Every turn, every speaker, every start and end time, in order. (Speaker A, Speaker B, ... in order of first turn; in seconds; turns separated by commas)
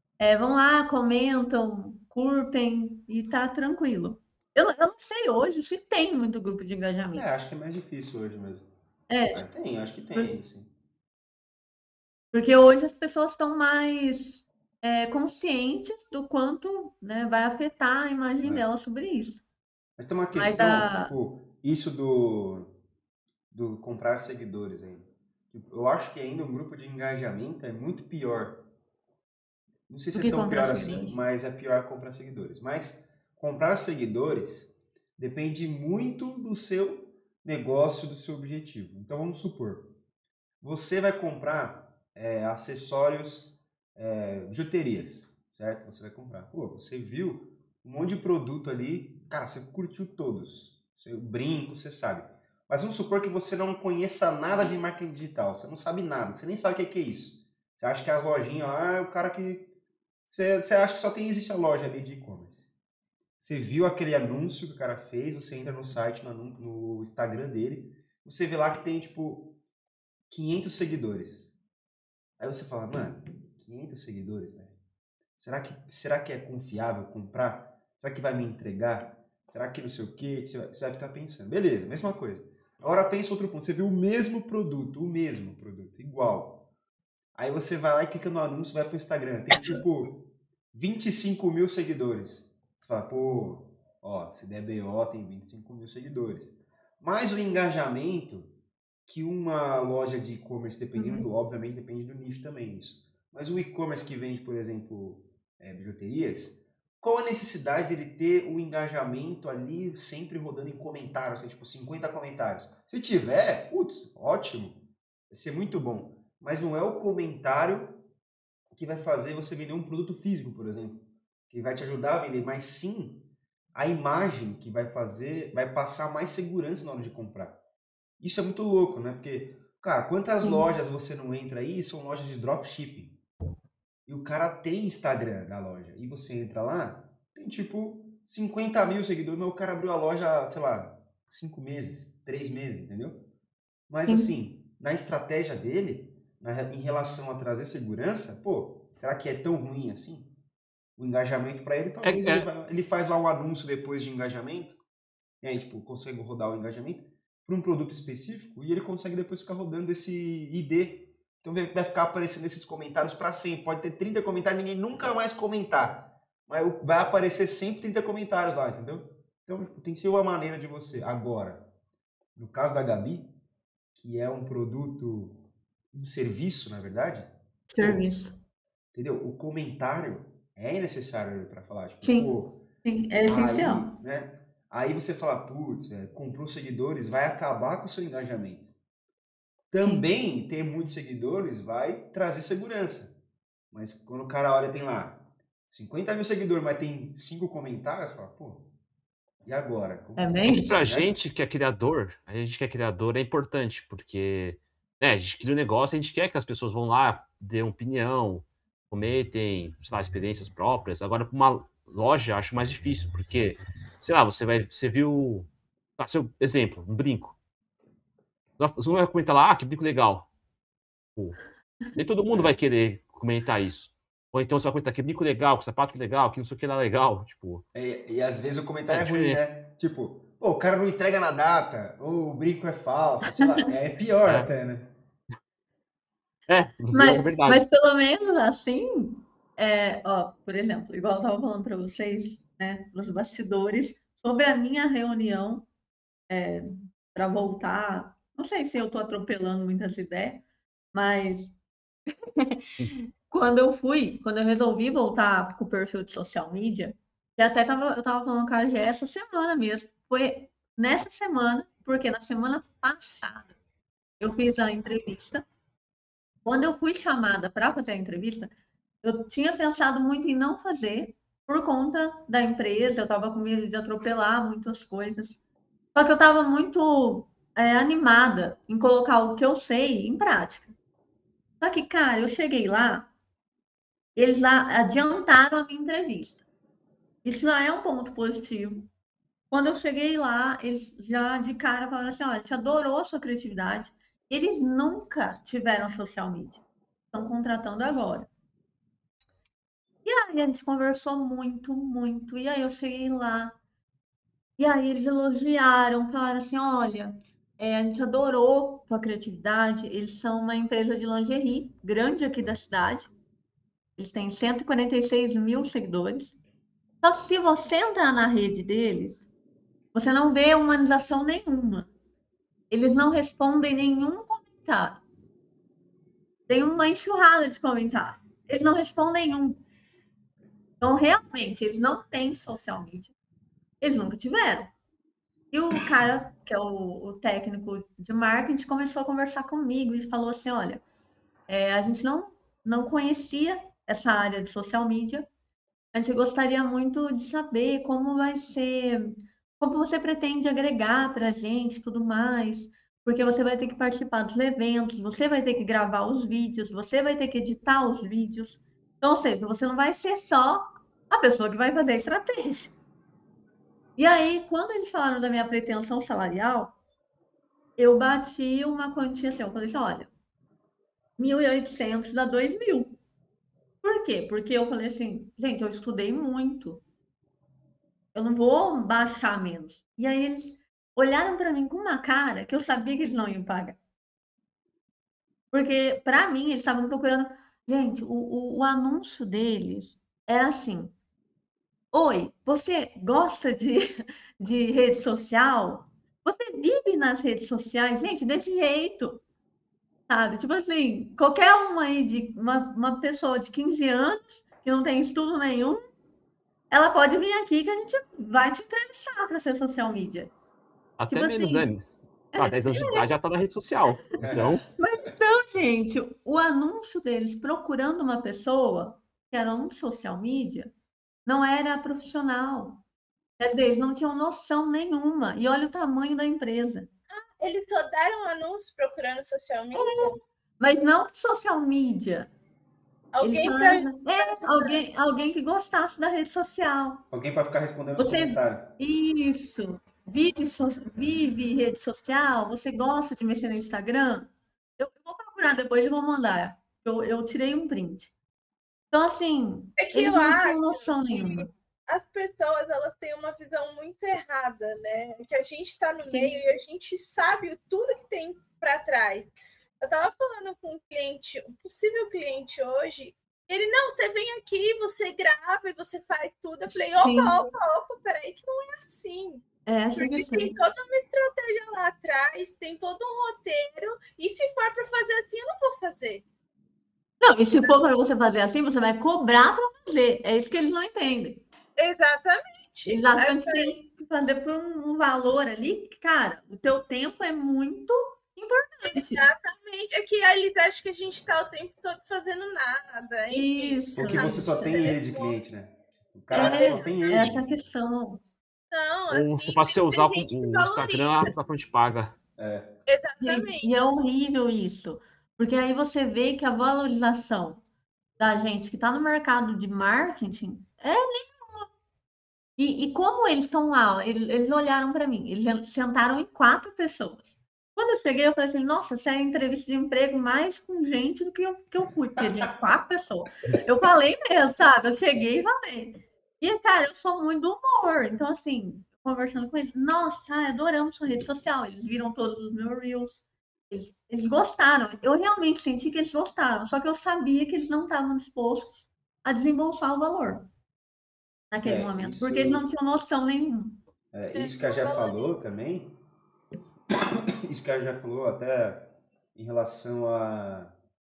Speaker A: 0.2-7.2, Speaker B: 7.1-8.7, Speaker A: 9.1-9.4, Speaker B: 9.3-10.7, Speaker A: 12.3-19.4, Speaker B: 20.0-22.7, Speaker A: 20.4-21.1, Speaker B: 23.5-28.6, Speaker B: 29.9-39.9, Speaker A: 30.1-31.2, Speaker B: 40.6-59.7, Speaker B: 60.3-62.7, Speaker B: 63.4-69.5, Speaker B: 70.3-71.5, Speaker B: 72.4-74.7, Speaker B: 75.4-86.6, Speaker B: 87.4-98.5, Speaker B: 99.1-114.8, Speaker A: 101.0-101.3, Speaker B: 115.3-118.0, Speaker B: 118.7-123.2, Speaker B: 123.8-127.6, Speaker B: 128.2-133.2, Speaker A: 130.4-130.7, Speaker B: 134.1-143.2, Speaker B: 143.9-150.3, Speaker A: 144.1-144.3, Speaker B: 151.0-154.8, Speaker C: 152.0-152.5, Speaker B: 155.4-171.6, Speaker B: 172.4-173.3, Speaker B: 173.9-175.4, Speaker B: 175.9-177.3, Speaker A: 177.7-178.3, Speaker B: 177.8-178.1, Speaker B: 178.9-182.6, Speaker A: 182.0-183.9, Speaker B: 183.3-188.7, Speaker B: 189.7-193.2, Speaker B: 193.7-198.6, Speaker B: 199.4-201.1, Speaker A: 200.2-200.8, Speaker C: 200.5-217.4, Speaker C: 218.6-220.3, Speaker C: 221.2-221.4, Speaker C: 221.9-227.6, Speaker B: 222.3-222.6, Speaker B: 227.7-234.9, Speaker C: 228.9-229.4, Speaker C: 234.2-234.5, Speaker C: 236.5-237.6, Speaker A: 236.9-245.7, Speaker A: 246.3-251.5, Speaker A: 252.3-263.5, Speaker A: 264.2-265.4, Speaker A: 266.4-275.4, Speaker A: 275.9-280.7, Speaker A: 281.6-283.1, Speaker A: 284.2-286.4, Speaker A: 287.2-288.9, Speaker A: 289.5-298.3, Speaker A: 300.1-303.6, Speaker A: 304.6-313.1, Speaker A: 314.0-316.4, Speaker A: 317.0-319.2, Speaker A: 319.9-321.9, Speaker A: 322.7-325.0, Speaker A: 326.5-329.6, Speaker A: 330.8-333.1, Speaker A: 333.8-334.7, Speaker A: 335.5-340.8, Speaker A: 341.5-345.3, Speaker A: 345.9-362.7, Speaker A: 364.0-366.7, Speaker A: 367.8-370.1, Speaker A: 371.2-373.0, Speaker A: 373.8-376.8, Speaker A: 378.1-383.8, Speaker A: 385.5-390.9, Speaker A: 391.9-399.2, Speaker A: 400.1-405.8, Speaker A: 406.7-410.3, Speaker C: 411.0-414.6, Speaker A: 411.1-411.7, Speaker A: 412.3-413.1, Speaker B: 414.2-414.6, Speaker A: 414.8-420.7, Speaker A: 421.3-422.8, Speaker A: 423.4-426.9, Speaker D: 427.1-430.2, Speaker A: 429.7-432.3, Speaker D: 433.1-434.8, Speaker A: 433.2-437.0, Speaker B: 437.1-438.8, Speaker A: 438.0-448.1, Speaker A: 448.9-451.5, Speaker D: 449.8-469.4, Speaker A: 456.1-456.3, Speaker A: 467.0-467.4, Speaker A: 469.7-470.6, Speaker D: 470.0-476.2, Speaker A: 477.2-481.4, Speaker D: 481.8-483.8, Speaker A: 482.9-489.2, Speaker D: 488.9-495.4, Speaker A: 493.3-494.9, Speaker B: 494.0-497.6, Speaker D: 496.3-497.3, Speaker A: 496.3-498.2, Speaker D: 498.7-501.3, Speaker C: 499.1-502.1, Speaker B: 502.4-502.7, Speaker D: 502.9-503.9, Speaker A: 503.2-507.6, Speaker A: 508.2-511.7, Speaker A: 512.6-540.5, Speaker A: 541.5-543.8, Speaker B: 541.6-542.6, Speaker B: 544.1-545.9, Speaker D: 544.3-545.3, Speaker B: 546.9-548.8, Speaker B: 549.4-550.7